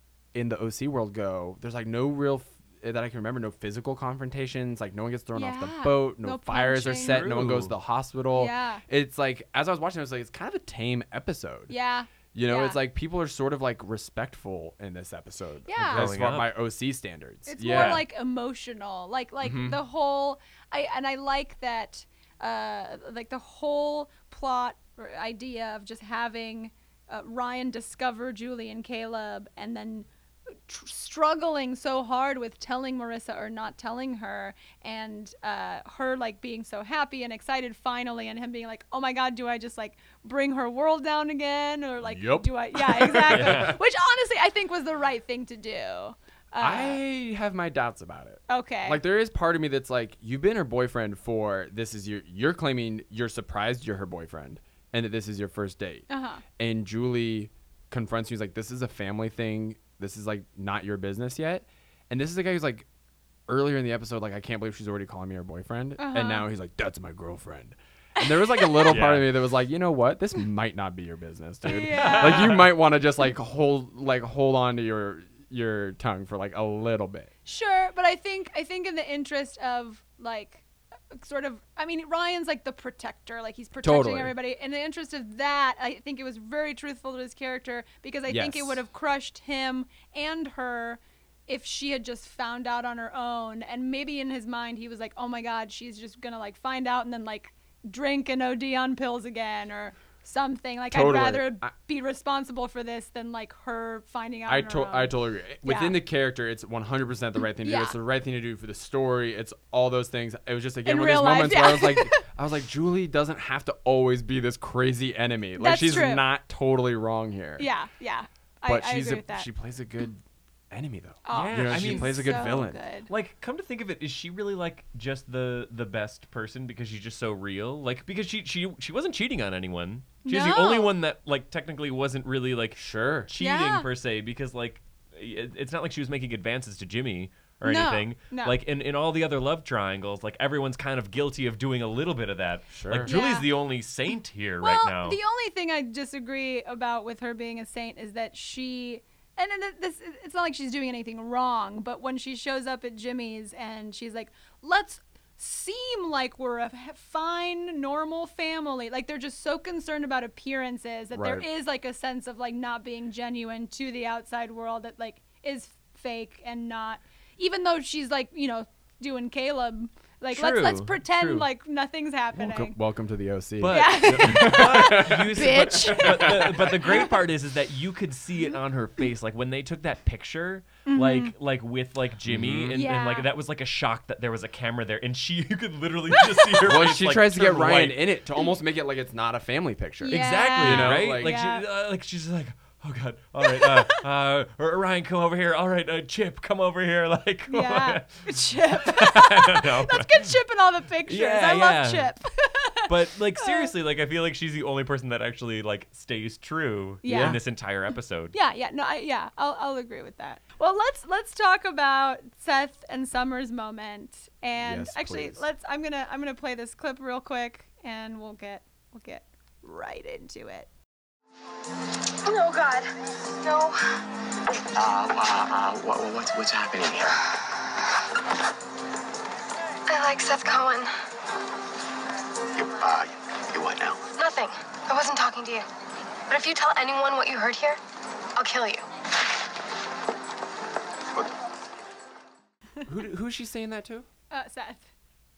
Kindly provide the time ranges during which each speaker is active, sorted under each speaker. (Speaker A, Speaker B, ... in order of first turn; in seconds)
Speaker A: 0.3-11.7, 12.3-18.0, 19.4-19.8, 42.0-43.8, 46.6-62.9, 63.5-77.3, 83.8-84.3, 88.3-88.8, 100.9-101.7, 104.5-117.7, 118.7-122.8, 132.8-133.3, 142.7-143.1, 161.1-161.4, 172.3-177.0, 182.3-182.8, 186.6-191.4, 207.1-207.4, 214.6-215.4, 242.8-244.1
Speaker B: 5.3-7.3, 8.3-8.8, 11.7-12.8, 15.7-16.1, 17.5-30.1, 30.7-47.0, 48.5-49.0, 56.1-56.4, 66.0-66.5, 68.2-69.0, 71.6-72.6, 77.5-106.0, 107.6-108.0, 110.8-112.2, 115.6-116.2, 117.6-119.5, 121.2-123.1, 130.2-130.9, 133.4-133.9, 137.6-138.6, 143.1-143.5, 144.6-172.7, 173.7-177.2, 180.9-181.3, 182.7-183.3, 186.2-186.6, 190.0-191.6, 193.4-194.0, 197.5-203.7, 207.0-207.4, 208.3-220.7, 244.3-244.8
Speaker C: 7.0-7.7, 15.8-16.5, 17.6-18.1, 43.3-43.8, 68.9-69.3, 71.8-72.7, 121.3-145.2, 170.3-171.5, 173.6-188.1, 190.1-200.4, 201.1-202.1, 202.9-208.3
Speaker D: 222.2-222.9, 223.4-223.8, 229.9-230.9, 234.2-235.7, 236.3-237.8, 238.4-238.8
Speaker E: 224.7-227.2, 232.6-234.1